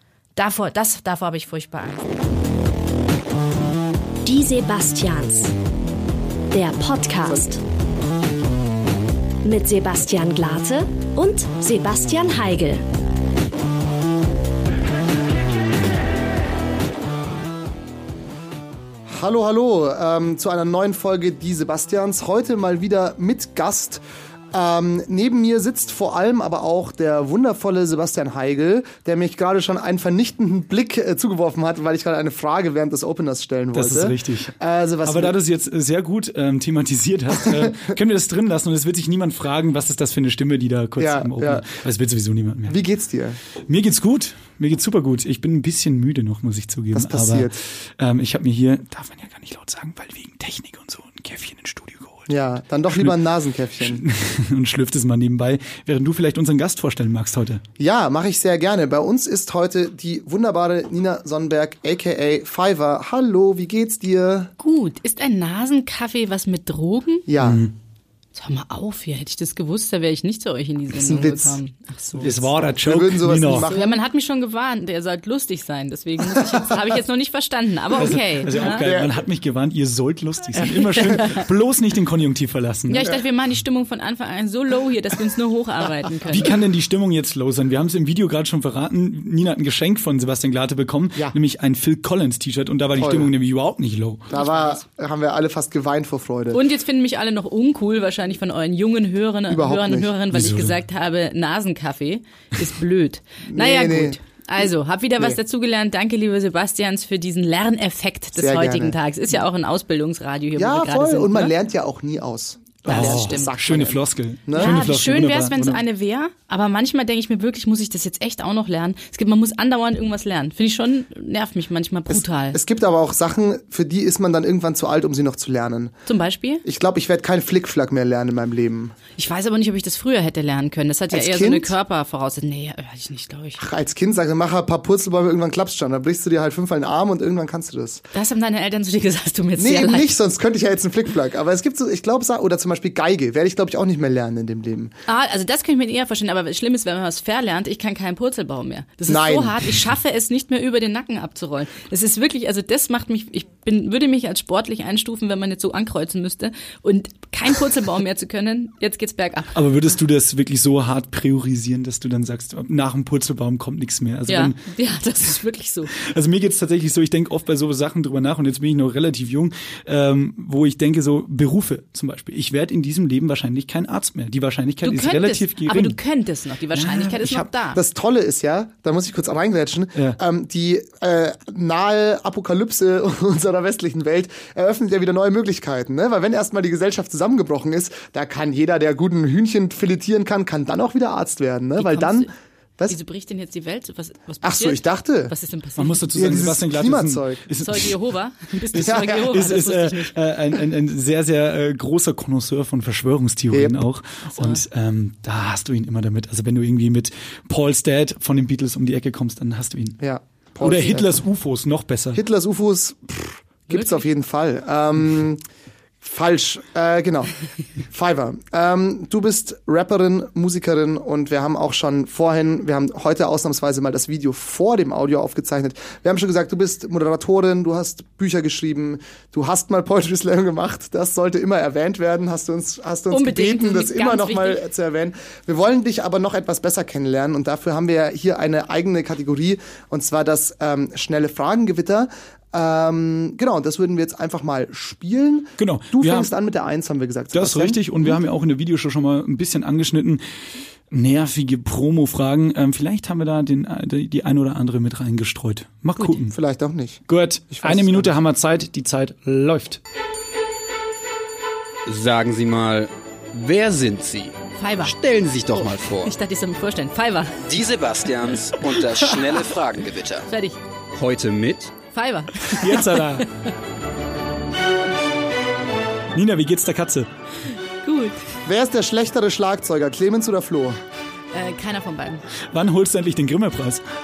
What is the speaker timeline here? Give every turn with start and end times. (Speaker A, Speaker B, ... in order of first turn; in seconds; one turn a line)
Speaker A: 0.3-2.1
Speaker B: 4.2-5.5
Speaker B: 6.5-7.6
Speaker B: 9.4-12.8
Speaker C: 19.1-35.4
Speaker D: 33.7-34.5
Speaker D: 35.0-42.8
Speaker C: 41.0-41.6
Speaker C: 42.7-43.4
Speaker D: 43.7-52.3
Speaker C: 46.9-47.6
Speaker C: 52.3-54.0
Speaker D: 52.9-53.2
Speaker D: 53.8-57.6
Speaker C: 57.8-64.5
Speaker A: 64.6-67.3
Speaker C: 67.3-67.6
Speaker D: 67.4-67.7
Speaker A: 68.3-72.4
Speaker C: 71.0-71.6
Speaker D: 72.2-73.7
Speaker C: 72.8-74.0
Speaker A: 73.5-78.8
Speaker D: 78.0-83.0
Speaker C: 78.6-79.2
Speaker A: 80.5-81.5
Speaker A: 82.9-86.4
Speaker C: 82.9-83.2
Speaker D: 86.3-94.3
Speaker C: 93.0-93.3
Speaker C: 94.3-96.6
Speaker A: 94.3-94.8
Speaker A: 96.5-111.5
Speaker C: 99.5-100.1
Speaker D: 100.3-100.8
Speaker C: 103.5-104.2
Speaker C: 108.3-109.0
Speaker C: 110.5-114.8
Speaker A: 112.8-113.5
Speaker D: 112.8-115.8
Speaker A: 114.5-122.6
Speaker C: 122.1-125.9
Speaker A: 126.1-126.6
Speaker C: 126.6-128.9
Speaker A: 129.2-133.6
Speaker C: 131.1-131.7
Speaker C: 133.6-138.1
Speaker A: 138.1-140.1
Speaker C: 139.6-144.9
Speaker A: 145.1-159.6
Speaker C: 149.1-149.6
Speaker D: 159.5-164.6
Speaker A: 164.3-165.9
Speaker D: 165.9-176.0
Speaker A: 174.8-177.8
Speaker D: 176.7-177.5
Speaker C: 177.7-193.0
Speaker A: 191.8-192.3
Speaker A: 192.9-196.2
Speaker C: 194.4-195.3
Speaker D: 195.8-197.9
Speaker C: 196.1-197.4
Speaker A: 197.6-200.1
Speaker C: 198.7-199.3
Speaker D: 198.8-210.0
Speaker C: 203.5-203.8
Speaker A: 204.3-204.6
Speaker C: 210.0-211.2
Speaker D: 210.6-212.2
Speaker C: 212.1-215.4
Speaker A: 213.7-214.0
Speaker C: 216.0-248.2
Speaker A: 233.1-234.6
Speaker D: 245.6-246.3
Speaker D: 247.3-250.2
Speaker D: 250.9-256.4
Speaker C: 256.3-258.1
Speaker D: 257.1-259.8
Speaker E: 261.9-266.1
Speaker A: 264.6-264.9
Speaker A: 265.5-267.5
Speaker E: 267.4-270.3
Speaker A: 270.3-270.6
Speaker E: 270.9-271.8
Speaker A: 271.9-273.5
Speaker D: 272.5-273.3
Speaker D: 276.1-277.1
Speaker A: 277.8-278.2
Speaker C: 278.4-280.8
Speaker A: 281.3-282.2
Speaker D: 282.5-283.8